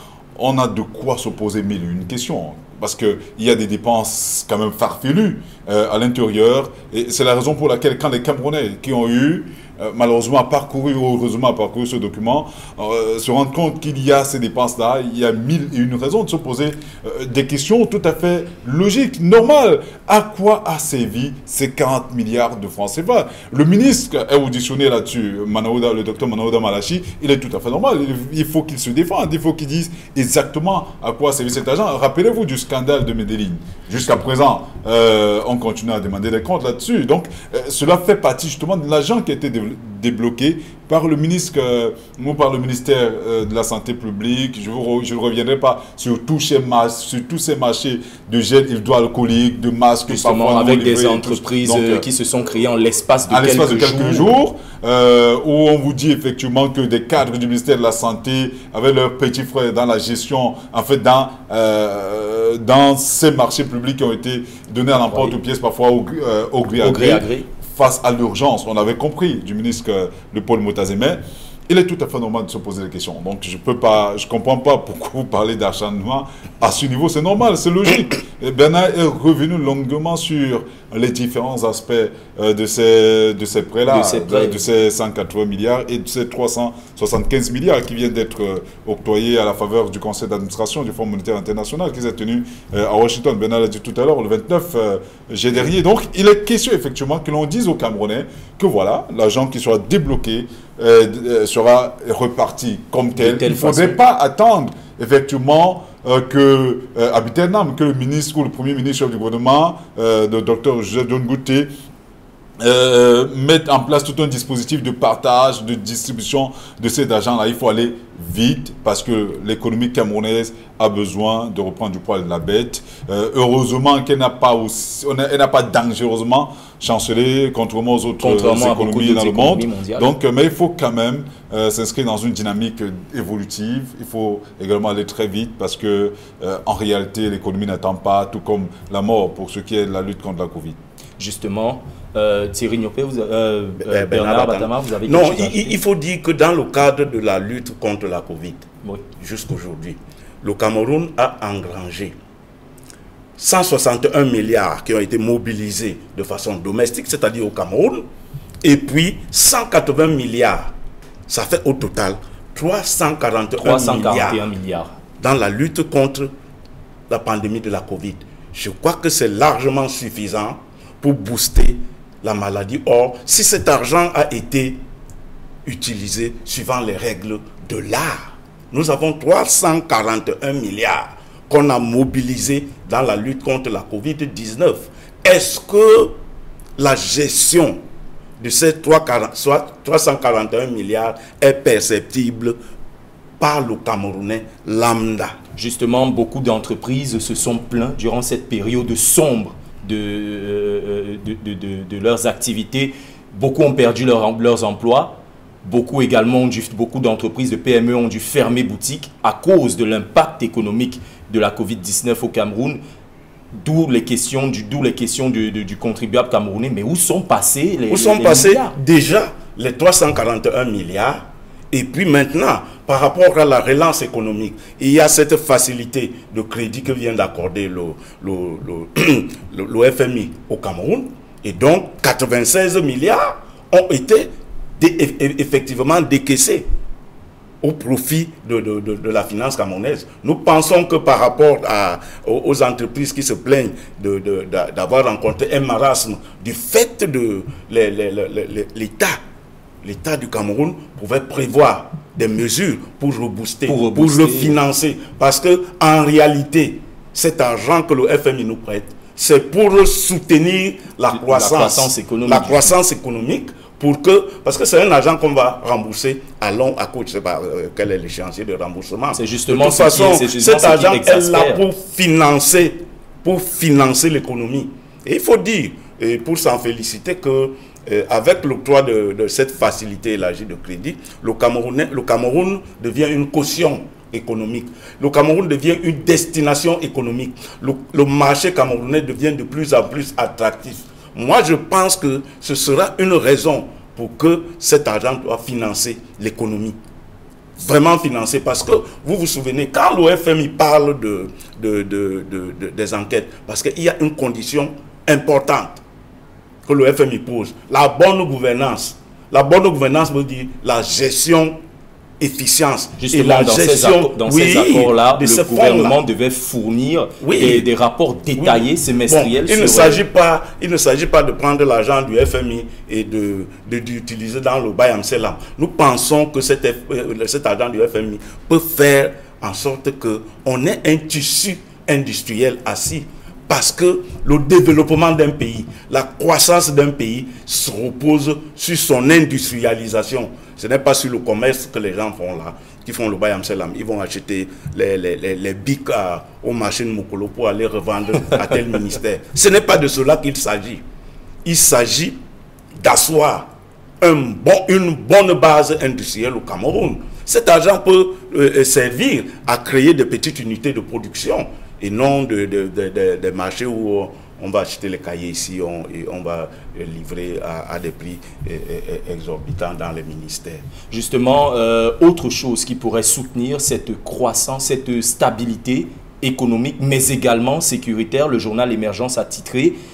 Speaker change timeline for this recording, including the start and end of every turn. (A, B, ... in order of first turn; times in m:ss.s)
0:00.4-0:52.1 A
0:50.1-0:54.3 B
0:53.3-1:51.7 A
1:06.8-1:07.5 B
1:23.9-1:24.6 B
1:43.2-1:44.0 B
1:52.6-2:20.8 A
2:08.2-2:10.1 B
2:21.2-2:25.8 B
2:23.8-2:28.7 C
2:29.2-2:32.2 C
2:33.4-2:38.1 C
2:38.6-2:40.7 C
2:41.3-2:44.4 C
2:43.6-2:44.9 B
2:45.2-2:46.3 C
2:47.1-2:54.8 C
2:55.6-3:06.2 C
3:06.8-3:07.8 C
3:08.4-3:12.6 C
3:13.4-3:15.4 C
3:15.6-3:32.8 B
3:33.5-3:38.8 B
3:37.9-3:56.7 C
3:57.6-4:09.2 C
4:09.8-4:56.8 C
4:13.7-4:14.6 B
4:21.1-4:22.8 B
4:29.1-4:31.6 B
4:57.6-5:05.8 C
5:06.7-5:11.6 C
5:12.2-5:16.0 C
5:13.0-5:20.0 B
5:17.2-5:17.7 C
5:18.4-5:50.8 C
5:51.4-5:52.2 C
5:52.8-6:10.7 C
6:10.9-6:19.8 B